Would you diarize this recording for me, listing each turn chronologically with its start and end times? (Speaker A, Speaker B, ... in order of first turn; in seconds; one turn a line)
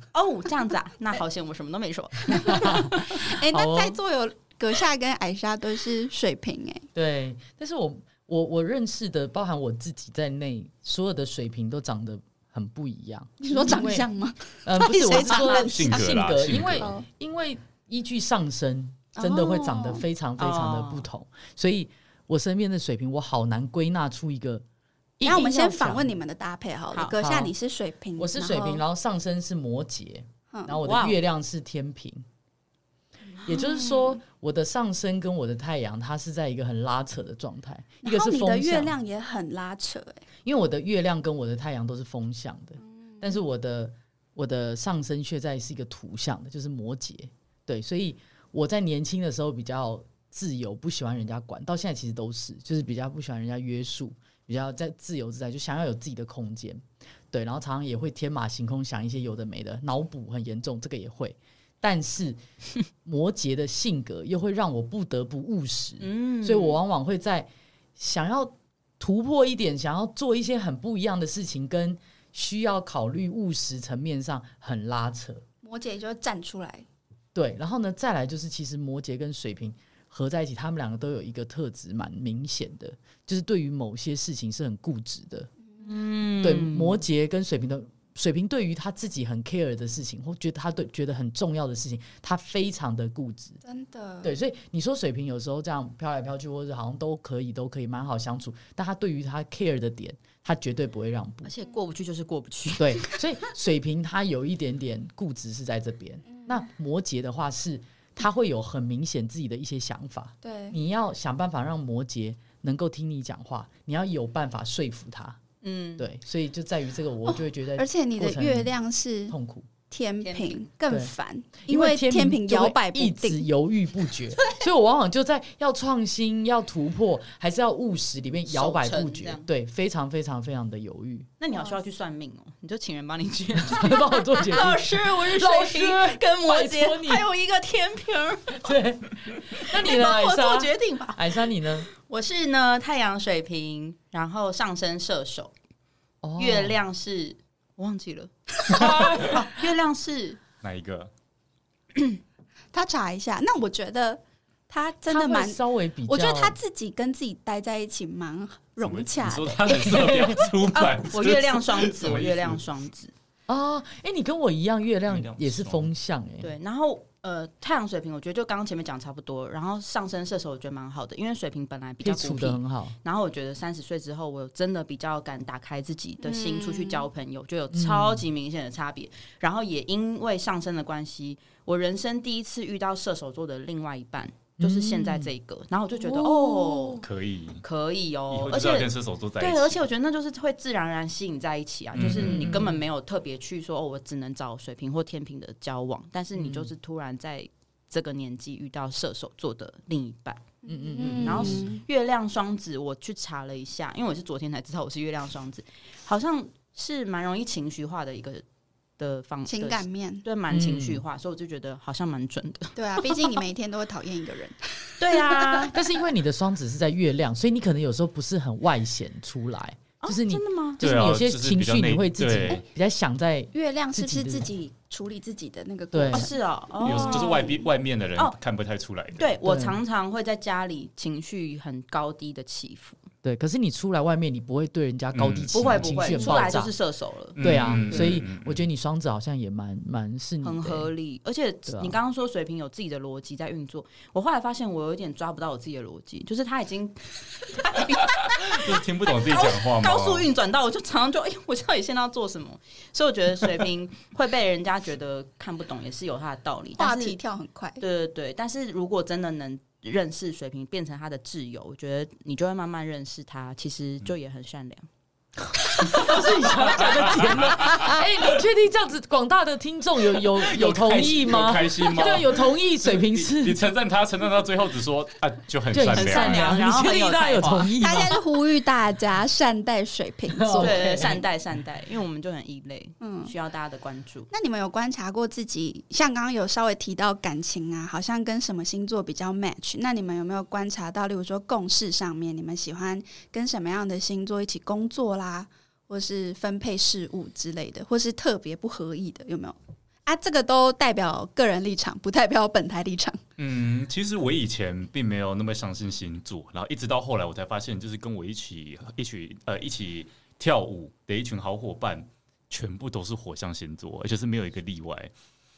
Speaker A: 0.1-3.2
Speaker B: 2.3-6.9
Speaker C: 2.5-4.0
Speaker C: 6.9-14.1
Speaker B: 13.4-16.1
Speaker C: 14.6-24.6
Speaker D: 15.6-16.9
Speaker B: 16.6-17.1
Speaker B: 19.2-20.0
Speaker A: 20.4-21.1
Speaker C: 25.2-26.1
Speaker B: 25.2-28.8
Speaker C: 27.2-27.5
Speaker C: 28.2-32.2
Speaker B: 30.5-30.8
Speaker A: 30.8-31.2
Speaker B: 33.4-34.2
Speaker C: 33.4-38.9
Speaker B: 38.0-40.2
Speaker C: 40.4-62.4
Speaker C: 63.0-75.4
Speaker A: 66.0-66.8
Speaker B: 75.6-76.8
Speaker C: 77.3-85.5
Speaker A: 85.8-87.0
Speaker C: 86.4-93.6
Speaker B: 93.6-94.3
Speaker C: 94.2-101.5
Speaker A: 101.4-103.2
Speaker C: 102.8-115.4
Speaker B: 106.3-106.6
Speaker B: 110.4-110.8
Speaker A: 115.6-116.1
Speaker C: 116.0-118.7
Speaker B: 117.2-119.3
Speaker C: 119.3-119.7
Speaker B: 119.9-123.4
Speaker A: 120.2-120.7
Speaker C: 121.7-131.3
Speaker A: 128.5-129.4
Speaker A: 131.4-138.7
Speaker C: 133.6-137.2
Speaker C: 138.5-141.9
Speaker A: 139.6-141.4
Speaker A: 141.9-145.5
Speaker C: 146.2-146.8
Speaker A: 146.4-150.4
Speaker C: 148.8-149.3
Speaker B: 148.8-149.1
Speaker D: 150.6-151.1
Speaker B: 152.7-160.1
Speaker C: 155.1-156.6
Speaker D: 158.8-162.6
Speaker C: 159.8-160.4
Speaker A: 160.8-163.1
Speaker C: 163.5-166.5
Speaker D: 165.1-165.9
Speaker A: 166.4-187.0
Speaker C: 172.0-172.9
Speaker B: 176.2-177.1
Speaker C: 177.7-178.2
Speaker C: 184.6-185.3
Speaker B: 186.1-187.0
Speaker D: 187.0-187.6
Speaker A: 187.6-200.4
Speaker D: 188.3-189.8
Speaker D: 191.9-192.7
Speaker C: 192.0-192.8
Speaker C: 196.4-196.7
Speaker B: 200.6-201.8
Speaker C: 200.7-201.7
Speaker A: 201.1-208.4
Speaker A: 209.0-213.4
Speaker B: 209.4-210.2
Speaker C: 210.5-211.0
Speaker B: 212.8-215.7
Speaker A: 215.0-215.8
Speaker C: 215.7-224.5
Speaker A: 220.0-220.8
Speaker D: 220.8-222.6
Speaker B: 223.5-227.5
Speaker C: 225.9-226.3
Speaker A: 226.1-227.6
Speaker D: 226.8-229.3
Speaker A: 229.2-233.0
Speaker C: 229.4-229.8
Speaker C: 233.2-236.7
Speaker D: 235.1-236.2
Speaker A: 235.5-238.1
Speaker D: 237.3-238.7
Speaker C: 237.4-240.9
Speaker A: 240.4-257.2
Speaker C: 241.7-242.0
Speaker D: 248.3-250.3
Speaker B: 256.8-257.8
Speaker A: 257.8-264.9
Speaker C: 265.6-273.6
Speaker D: 266.8-267.9
Speaker B: 267.7-268.0
Speaker D: 270.4-272.5
Speaker D: 273.1-276.6
Speaker C: 275.7-278.2
Speaker A: 275.9-277.7
Speaker B: 277.8-281.2
Speaker C: 280.3-281.2
Speaker A: 280.6-284.3
Speaker B: 283.0-283.3
Speaker B: 284.3-303.2
Speaker D: 303.4-315.1